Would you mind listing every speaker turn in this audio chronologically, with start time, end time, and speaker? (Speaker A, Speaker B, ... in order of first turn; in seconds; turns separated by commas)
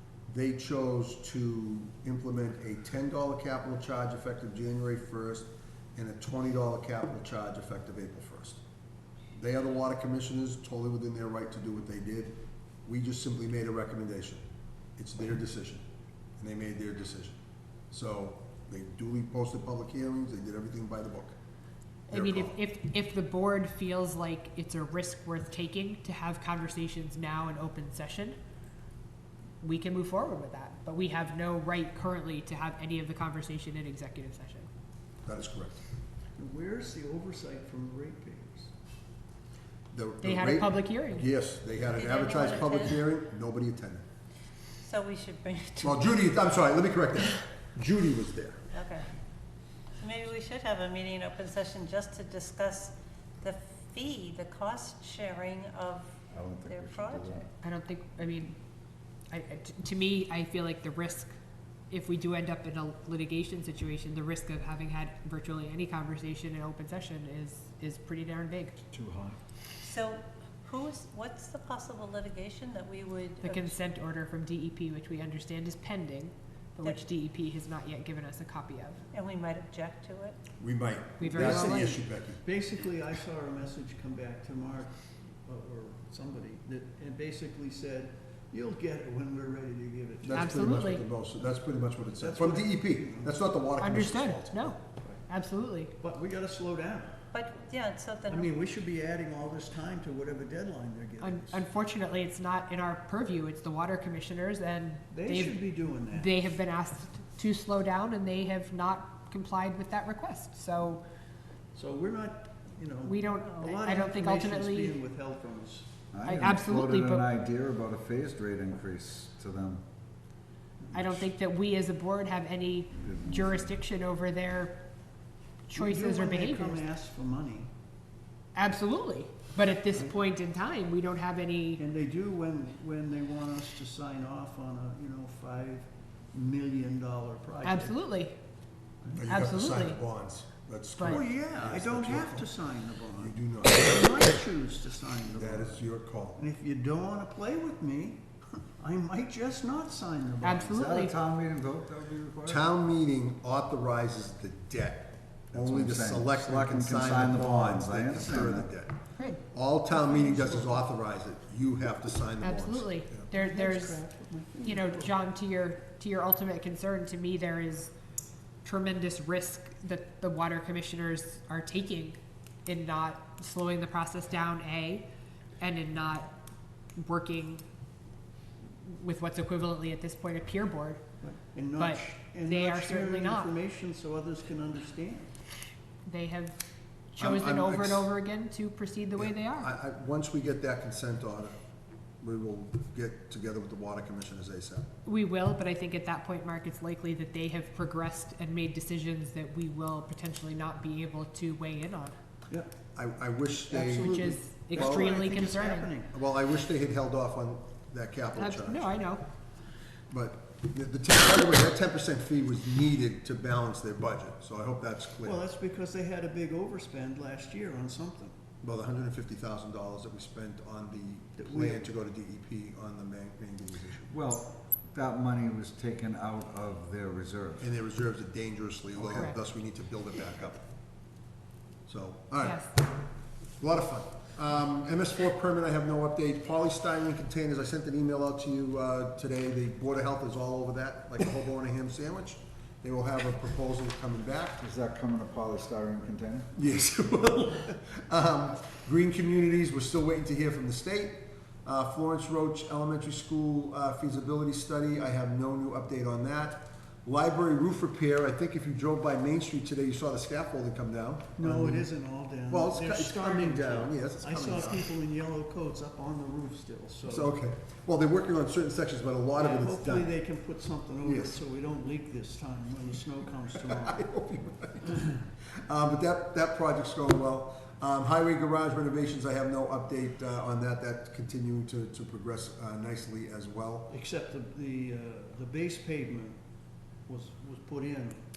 Speaker A: 0.3-8.6, Speaker A: 9.3-14.4, Speaker A: 15.0-15.8, Speaker A: 16.4-17.4, Speaker A: 17.9-21.4, Speaker B: 22.1-28.4, Speaker A: 22.1-22.6, Speaker B: 29.6-34.7, Speaker A: 35.2-35.8, Speaker C: 36.4-38.7, Speaker A: 39.9-44.0, Speaker B: 40.2-41.2, Speaker D: 42.0-43.0, Speaker D: 44.8-46.1, Speaker A: 45.8-48.7, Speaker D: 48.7-49.1, Speaker D: 50.0-57.5, Speaker E: 56.3-57.5, Speaker B: 57.6-58.6, Speaker B: 59.3-61.4, Speaker B: 61.9-68.8, Speaker E: 68.9-69.4, Speaker D: 69.8-73.7, Speaker B: 73.4-79.0, Speaker D: 79.1-80.4, Speaker A: 80.6-82.4, Speaker B: 81.2-82.0, Speaker C: 82.4-90.8, Speaker A: 90.2-94.8, Speaker B: 90.3-91.0, Speaker C: 92.2-93.4, Speaker B: 93.8-95.9, Speaker C: 95.0-95.3, Speaker C: 96.0-97.3, Speaker D: 97.3-98.5, Speaker C: 98.3-101.6, Speaker B: 101.2-105.6, Speaker C: 105.1-106.4, Speaker B: 106.1-111.0, Speaker C: 111.7-116.1, Speaker B: 113.0-114.9, Speaker E: 116.1-119.8, Speaker B: 116.2-117.3, Speaker C: 120.8-121.3, Speaker B: 120.9-124.8, Speaker E: 123.0-123.7, Speaker B: 125.7-126.8, Speaker C: 125.7-127.7, Speaker B: 128.6-131.8, Speaker C: 131.8-138.0, Speaker B: 137.6-138.4, Speaker A: 139.1-142.5, Speaker B: 139.3-140.0, Speaker C: 141.1-150.8, Speaker A: 143.2-144.0, Speaker A: 145.4-146.4, Speaker B: 150.4-151.1, Speaker E: 150.7-152.7, Speaker A: 152.5-159.0, Speaker E: 155.5-158.7, Speaker A: 159.5-163.2, Speaker C: 159.9-160.8, Speaker B: 162.4-164.0, Speaker C: 163.3-165.1, Speaker B: 164.6-167.9, Speaker B: 168.6-175.1, Speaker B: 175.6-176.3, Speaker B: 177.0-177.6, Speaker B: 178.8-181.0, Speaker C: 181.2-185.3, Speaker B: 181.8-183.5, Speaker B: 186.1-186.6, Speaker B: 187.2-189.7, Speaker A: 187.2-188.1, Speaker A: 189.2-191.6, Speaker A: 192.2-194.9, Speaker B: 195.1-202.2, Speaker A: 202.9-205.1, Speaker C: 203.7-206.1, Speaker B: 203.9-205.9, Speaker A: 206.1-209.1, Speaker B: 208.4-209.2, Speaker A: 210.1-215.4, Speaker C: 215.2-218.4, Speaker A: 218.6-224.1, Speaker C: 221.4-221.8, Speaker E: 224.1-227.7, Speaker A: 227.6-230.7, Speaker A: 231.9-232.9, Speaker B: 232.4-232.7, Speaker A: 233.6-244.6, Speaker E: 244.6-246.5, Speaker A: 246.6-261.9, Speaker C: 261.4-267.4, Speaker A: 262.5-264.8, Speaker A: 267.1-270.1, Speaker C: 269.4-274.1, Speaker A: 271.0-271.4, Speaker A: 273.6-283.9, Speaker C: 283.9-286.4, Speaker C: 287.1-288.2